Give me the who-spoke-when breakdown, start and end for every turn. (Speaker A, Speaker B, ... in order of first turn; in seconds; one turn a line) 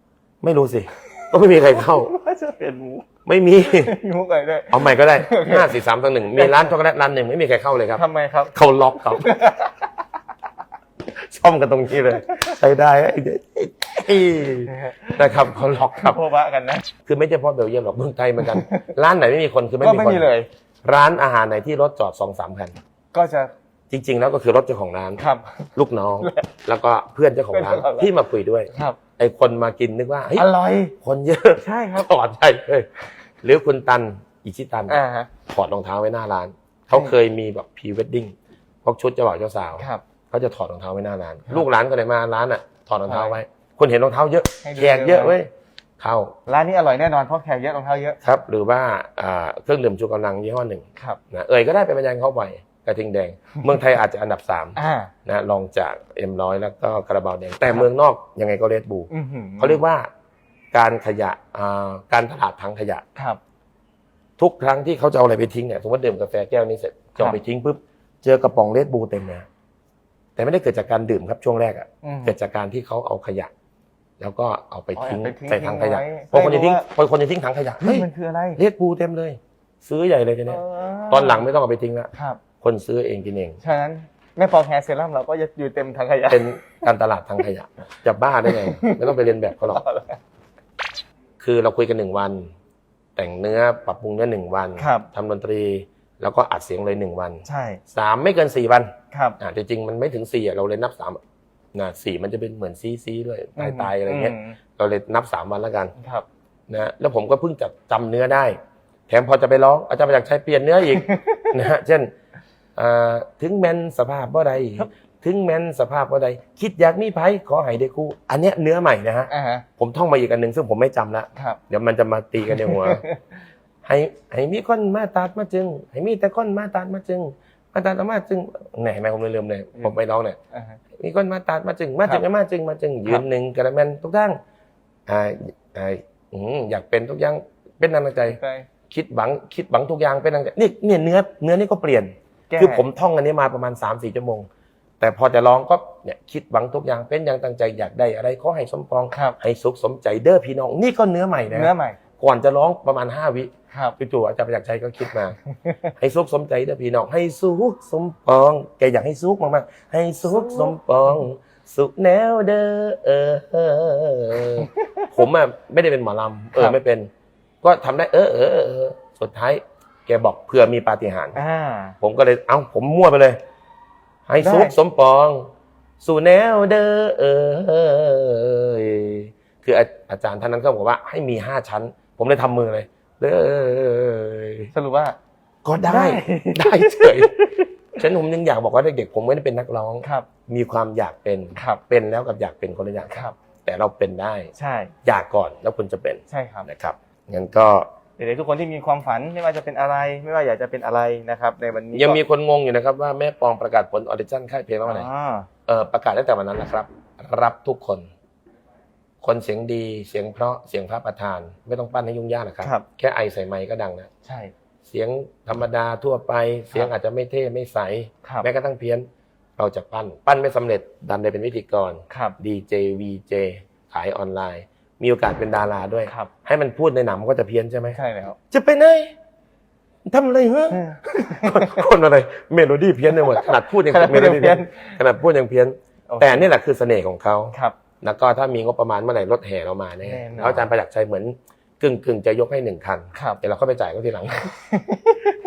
Speaker A: 0.4-2.1
Speaker B: 1.0-3.1
Speaker A: 3.3-4.0
Speaker B: 3.7-5.8
Speaker A: 4.7-9.3
Speaker B: 6.3-6.7
Speaker B: 8.0-8.6
Speaker B: 9.2-9.9
Speaker A: 11.1-16.2
Speaker B: 14.7-15.3
Speaker B: 15.9-16.9
Speaker A: 17.1-20.3
Speaker B: 18.4-18.9
Speaker B: 19.8-20.5
Speaker A: 20.8-22.8
Speaker B: 23.1-23.5
Speaker A: 23.9-25.2
Speaker B: 25.2-25.6
Speaker A: 25.8-30.5
Speaker B: 26.2-26.5
Speaker B: 27.5-28.1
Speaker B: 30.4-30.9
Speaker A: 31.0-32.9
Speaker B: 31.6-32.1
Speaker A: 33.4-46.4
Speaker B: 34.9-35.3
Speaker B: 39.8-40.0
Speaker B: 43.0-43.4
Speaker B: 44.6-45.4
Speaker B: 46.5-48.2
Speaker A: 48.2-60.1
Speaker B: 54.8-55.1
Speaker B: 59.1-59.8
Speaker A: 60.7-63.0
Speaker B: 63.1-63.4
Speaker A: 64.4-69.5
Speaker A: 70.4-73.5
Speaker B: 72.0-72.4
Speaker A: 74.2-83.6
Speaker B: 75.0-76.9
Speaker B: 77.8-78.6
Speaker B: 80.5-81.5
Speaker B: 82.1-82.4
Speaker B: 83.6-86.6
Speaker A: 86.3-89.8
Speaker B: 88.5-89.1
Speaker B: 89.6-90.2
Speaker A: 91.4-92.5
Speaker A: 93.2-101.2
Speaker B: 94.8-95.1
Speaker B: 97.5-97.8
Speaker B: 99.1-99.4
Speaker A: 101.7-105.9
Speaker B: 103.6-104.6
Speaker B: 106.0-106.3
Speaker A: 106.7-108.6
Speaker A: 109.1-112.1
Speaker B: 110.9-111.5
Speaker A: 112.8-123.0
Speaker B: 119.3-119.7
Speaker B: 122.5-123.2
Speaker A: 123.8-130.4
Speaker B: 130.5-130.8
Speaker A: 131.0-134.4
Speaker A: 135.1-138.4
Speaker B: 138.2-138.7
Speaker A: 138.9-144.5
Speaker B: 142.5-142.9
Speaker A: 145.0-155.4
Speaker B: 149.1-149.4
Speaker B: 151.5-152.0
Speaker B: 153.7-154.0
Speaker A: 156.0-167.1
Speaker B: 160.3-160.8
Speaker A: 167.6-171.4
Speaker B: 171.3-172.0
Speaker A: 172.0-173.4
Speaker A: 174.3-184.7
Speaker B: 174.4-174.8
Speaker B: 184.7-185.2
Speaker A: 185.7-187.4
Speaker B: 185.8-187.6
Speaker A: 188.0-194.5
Speaker B: 190.0-190.3
Speaker B: 191.6-191.8
Speaker B: 193.1-193.3
Speaker B: 194.6-194.9
Speaker A: 195.1-197.9
Speaker B: 196.3-196.7
Speaker B: 198.2-202.2
Speaker A: 201.9-205.1
Speaker B: 204.8-205.5
Speaker A: 205.7-208.1
Speaker A: 209.2-214.1
Speaker B: 214.2-214.5
Speaker A: 214.8-219.1
Speaker A: 219.6-228.0
Speaker B: 222.1-222.4
Speaker B: 227.9-228.4
Speaker A: 228.5-229.1
Speaker A: 230.1-244.5
Speaker B: 230.7-231.8
Speaker B: 233.2-235.0
Speaker B: 236.1-236.5
Speaker B: 240.0-240.7
Speaker B: 243.1-243.4
Speaker B: 244.6-245.4